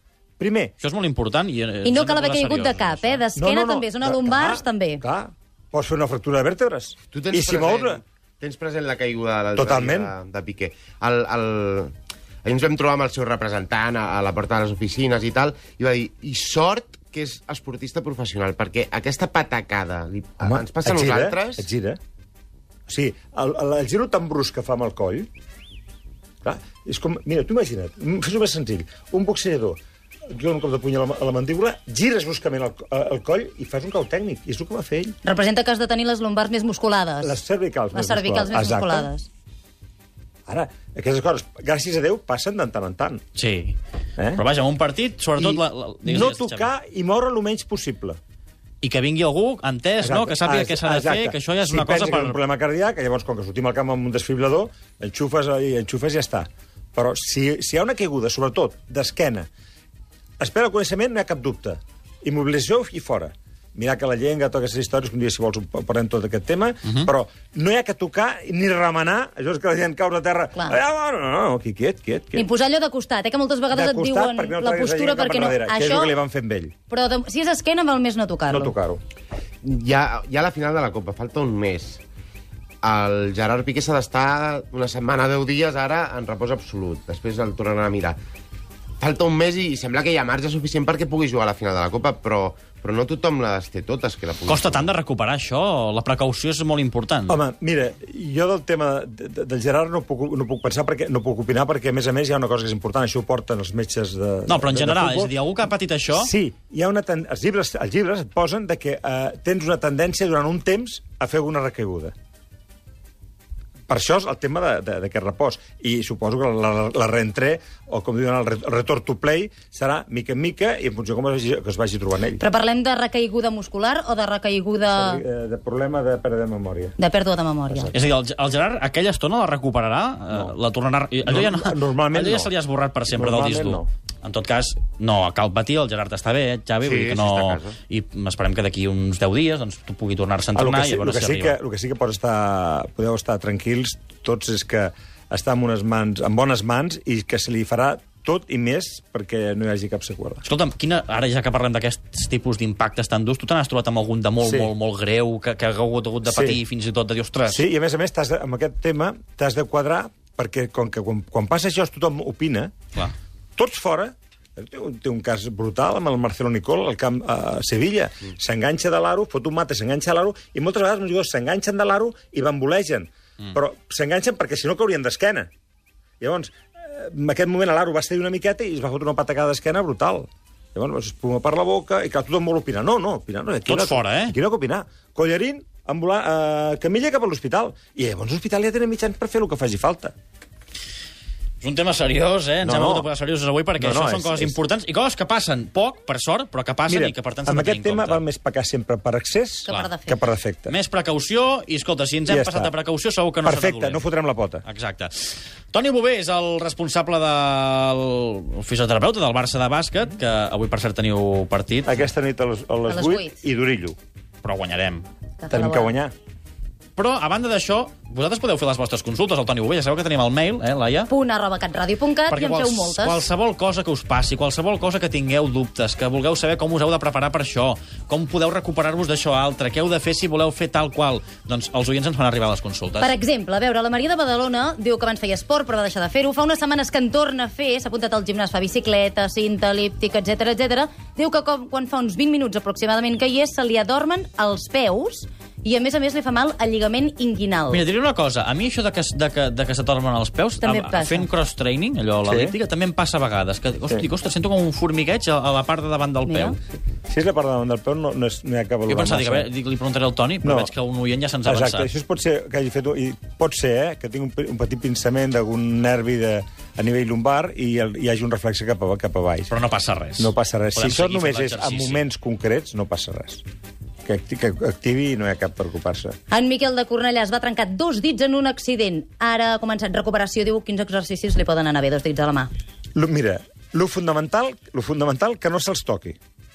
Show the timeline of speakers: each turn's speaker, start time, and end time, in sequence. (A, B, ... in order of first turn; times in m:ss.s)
0:00.4-0:00.7 A
0:00.8-0:03.2 B
0:01.8-0:05.0 C
0:03.4-0:08.0 A
0:07.1-0:11.9 D
0:09.6-0:10.1 A
0:12.4-0:21.7 D
0:20.4-0:22.0 A
0:22.9-0:25.3 A
0:26.4-0:35.2 A
0:35.2-0:37.4 C
0:37.2-0:39.1 A
0:37.9-0:39.3 C
0:40.5-0:43.2 A
0:43.4-0:43.8 B
0:44.2-0:44.4 A
0:44.3-0:46.7 B
0:45.4-0:48.2 A
0:48.8-0:52.4 B
0:50.0-0:59.5 A
1:00.4-1:12.5 A
1:12.4-1:16.2 C
1:13.7-1:16.7 A
1:16.9-1:18.8 C
1:18.5-1:19.0 A
1:19.6-1:22.0 D
1:22.8-1:28.2 D
1:29.0-1:34.9 D
1:34.5-1:37.4 B
1:37.3-1:45.3 A
1:44.5-1:46.3 B
1:46.1-1:52.1 A
1:53.9-2:02.4 A
2:02.4-2:05.2 C
2:04.9-2:07.0 A
2:07.0-2:07.9 C
2:07.7-2:08.0 A
2:07.9-2:21.6 B
2:11.2-2:12.5 A
2:13.1-2:13.9 A
2:16.8-2:17.8 D
2:20.6-2:30.4 A
2:30.4-2:37.6 B
2:34.4-2:34.7 A
2:36.3-2:36.6 A
2:37.5-2:42.7 A
2:43.6-2:55.5 A
2:56.2-3:10.1 A
3:03.7-3:04.4 B
3:11.6-3:18.2 B
3:12.6-3:13.1 A
3:13.8-3:14.6 A
3:16.9-3:20.8 A
3:19.7-3:20.2 C
3:20.7-3:24.0 B
3:22.3-3:22.7 A
3:23.4-3:24.6 A
3:24.6-3:32.1 B
3:31.8-3:34.0 A
3:32.9-3:33.4 C
3:34.4-3:35.1 B
3:35.4-3:35.9 C
3:35.5-3:36.1 A
3:37.0-3:41.1 B
3:41.1-3:43.3 C
3:42.3-3:53.2 B
3:53.0-4:07.8 C
4:07.7-4:16.6 B
4:10.6-4:11.3 C
4:12.2-4:12.6 A
4:16.2-4:16.6 C
4:17.1-4:19.5 A
4:18.9-4:21.9 B
4:20.4-4:20.7 A
4:21.5-4:29.5 A
4:29.5-4:32.0 B
4:30.2-4:33.4 A
4:34.0-4:36.2 A
4:36.3-4:42.5 C
4:43.0-4:46.2 A